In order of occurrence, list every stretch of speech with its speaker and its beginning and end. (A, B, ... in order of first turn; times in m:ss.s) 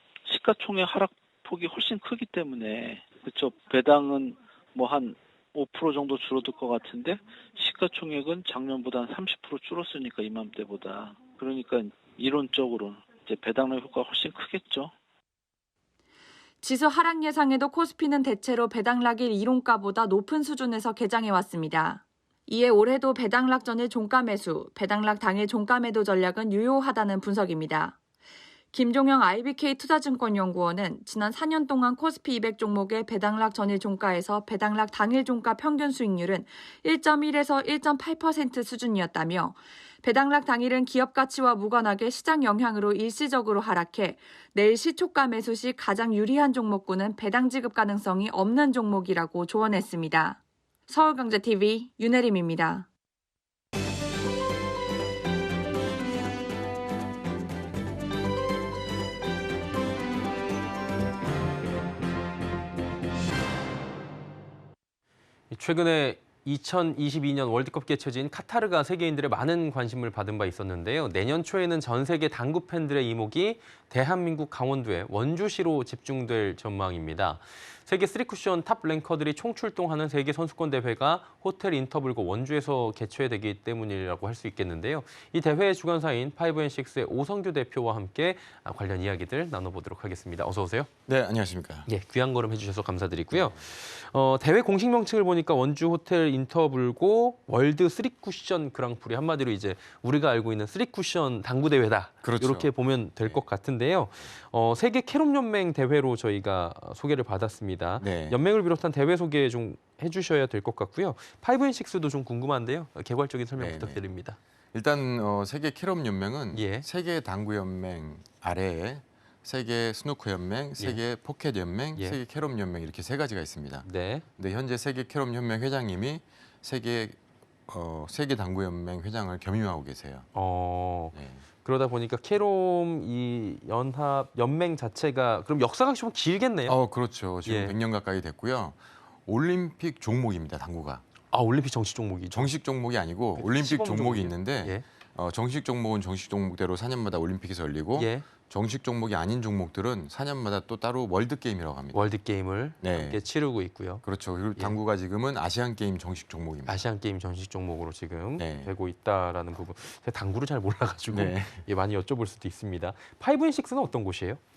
0:00.3-0:14.9 A
0:16.6-0:28.0 B
0:28.7-0:52.9 B
1:05.5-1:30.9 C
1:31.1-1:31.9 D
1:31.9-1:54.4 C
1:33.3-1:33.7 D
1:42.2-1:43.5 D
1:48.0-1:48.4 D
1:53.6-1:54.0 D
1:54.7-2:10.3 D
1:56.5-1:56.9 C
2:03.8-2:04.2 C
2:10.3-2:16.8 C
2:11.1-2:11.4 D
2:16.7-2:21.0 D
2:17.4-2:17.8 C
2:21.3-2:22.5 C
2:22.3-2:32.0 D
2:23.4-2:24.8 C
2:28.0-2:28.3 C
2:31.9-2:34.0 C
2:32.8-2:33.2 D
2:34.0-2:36.9 D
2:36.6-2:44.4 C
2:38.4-2:38.7 D
2:41.1-2:41.6 D